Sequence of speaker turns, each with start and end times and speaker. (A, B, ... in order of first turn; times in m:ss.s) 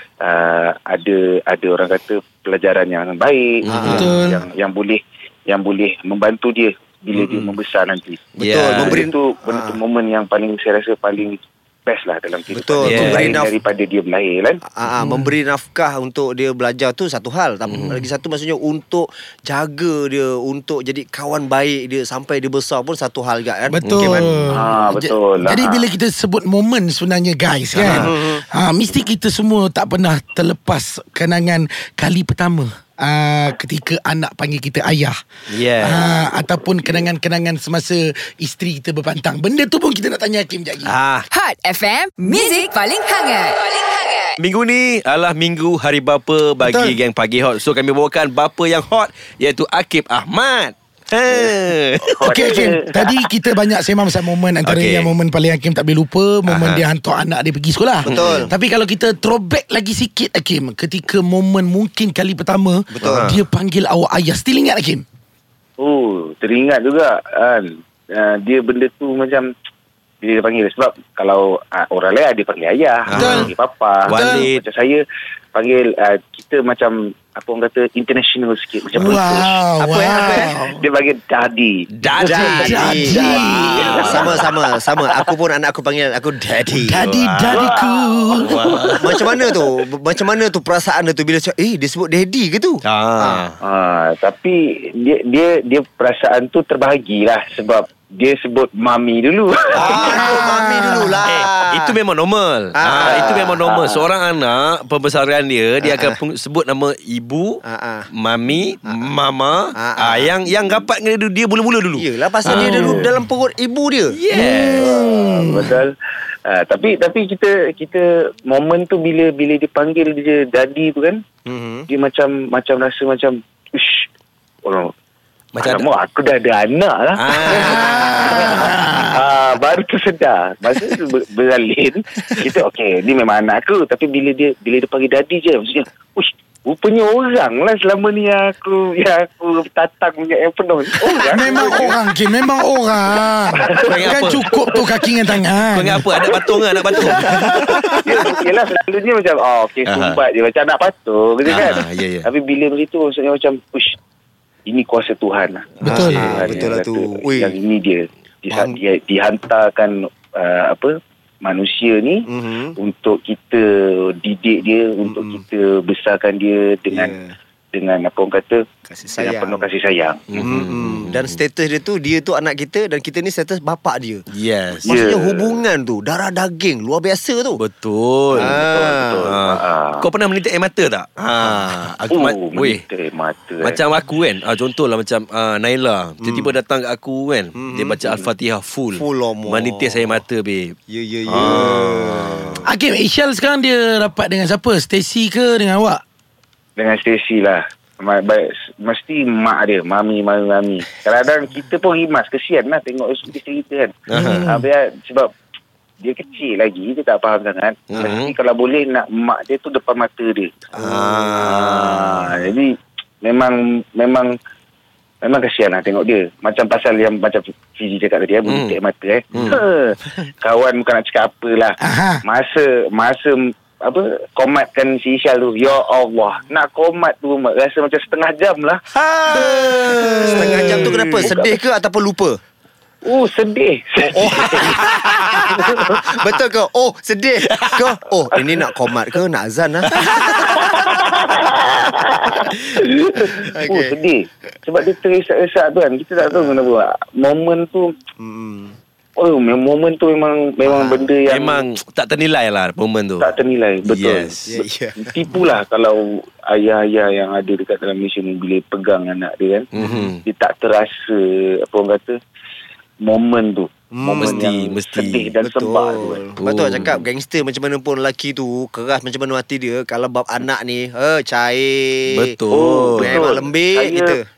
0:00.2-0:14.6 A
0:03.6-0:04.1 B
0:03.7-0:04.1 C
0:03.9-0:04.4 D
0:07.2-0:07.5 B
0:08.4-0:09.0 B
0:08.4-0:09.8 C
0:12.5-0:13.5 C
0:12.8-0:13.4 B
0:12.9-0:13.2 D
0:14.7-0:24.4 C
0:15.0-0:15.3 D
0:17.7-0:18.0 B
0:23.7-0:40.9 D
0:23.8-0:24.3 B
0:24.5-0:25.8 A
0:27.7-0:28.1 B
0:27.9-0:28.4 C
0:35.5-0:36.1 B
0:40.8-0:41.2 B
0:41.3-0:44.4 E
0:44.4-0:52.2 B
0:52.2-0:53.1 A
0:52.2-1:05.0 D
0:54.6-0:55.1 B
0:56.5-0:56.8 B
0:58.0-0:58.5 C
0:58.1-0:58.5 B
1:02.9-1:03.3 C
1:03.0-1:03.4 B
1:05.8-1:09.5 A
1:10.2-1:15.0 A
1:13.1-1:13.5 B
1:13.1-1:13.5 D
1:13.2-1:13.5 C
1:14.1-1:14.6 B
1:14.1-1:14.5 D
1:15.5-1:19.6 A
1:18.9-1:20.8 D
1:19.8-1:20.5 C
1:20.3-1:25.2 A
1:22.0-1:24.4 B
1:22.2-1:27.0 C
1:22.4-1:24.3 D
1:26.8-1:28.7 D
1:27.0-1:27.8 B
1:27.5-1:29.6 A
1:28.4-1:29.3 B
1:29.0-1:33.4 C
1:32.8-1:33.5 B
1:33.6-1:40.3 A
1:39.7-1:41.9 C
1:40.0-1:41.2 D
1:41.2-1:47.6 B
1:42.7-1:43.6 C
1:43.0-1:43.9 A
1:45.8-1:46.2 C
1:47.6-1:48.1 C
1:48.1-1:53.0 B
1:49.7-1:50.8 C
1:52.0-1:54.2 C
1:52.5-1:53.1 D
1:54.1-1:54.9 B
1:54.3-1:55.7 D
1:54.8-1:55.9 A
1:56.5-2:01.2 A
2:01.4-2:01.9 C
2:01.9-2:04.1 A
2:04.6-2:04.9 A
2:05.5-2:05.8 B
2:05.6-2:22.0 A
2:07.2-2:08.7 B
2:07.5-2:09.2 D
2:21.1-2:26.2 D
2:23.6-2:24.8 A
2:23.9-2:24.4 B
2:25.7-2:27.6 B
2:26.2-2:33.9 A
2:27.0-2:28.2 D
2:29.9-2:30.2 B
2:31.5-2:32.3 B
2:34.6-2:42.2 A
2:35.8-2:36.5 D
2:35.8-2:37.5 C
2:38.5-2:38.8 C
2:42.3-2:42.7 C
2:42.8-2:43.6 A
2:44.2-2:47.1 A
2:45.0-2:45.4 C
2:46.9-2:47.3 C
2:47.7-2:48.6 A
2:48.9-2:49.6 C
2:49.2-2:50.5 A
2:50.3-2:51.4 B
2:50.4-2:54.2 C
2:54.3-2:54.9 B
2:54.8-2:55.6 A
2:54.8-2:57.6 C
2:57.6-2:58.6 B
2:58.3-3:00.1 A
2:58.3-2:59.5 C
2:59.2-3:02.8 B
3:02.1-3:03.8 A
3:03.6-3:10.8 B
3:06.2-3:06.6 C
3:07.5-3:08.0 C
3:08.9-3:10.2 C
3:10.9-3:12.7 C
3:11.3-3:12.6 B
3:12.6-3:16.0 D
3:16.8-3:25.3 A
3:24.1-3:24.5 B
3:24.2-3:24.6 D
3:26.0-3:30.7 A
3:27.9-3:28.3 B
3:30.7-3:31.5 C
3:30.8-3:32.4 B
3:31.3-3:32.7 A
3:33.2-3:34.3 A
3:35.2-3:48.8 A
3:38.4-3:38.8 B
3:41.8-3:42.2 D
3:48.9-3:52.4 C
3:49.3-3:51.3 B
3:49.5-3:49.9 A
3:50.2-3:50.7 D
3:50.4-3:51.6 A
3:53.0-3:54.8 A
3:54.0-4:00.4 C
3:54.3-3:55.4 B
3:55.5-3:56.0 A
3:57.5-3:58.0 B
3:59.9-4:00.8 B
4:00.1-4:07.9 A
4:03.3-4:03.9 C
4:06.2-4:06.7 C
4:08.2-4:08.8 C
4:09.2-4:11.6 A
4:10.6-4:11.1 C
4:11.3-4:13.3 B
4:13.2-4:19.6 A
4:13.8-4:14.4 B
4:14.5-4:15.4 C
4:19.7-4:20.2 B
4:19.8-4:20.1 C
4:20.2-4:22.2 A
4:23.0-4:26.2 A
4:23.9-4:24.4 C
4:24.2-4:25.3 B
4:25.4-4:32.4 C
4:26.4-4:27.0 B
4:32.1-4:33.2 B
4:32.5-4:34.2 A
4:33.0-4:34.2 C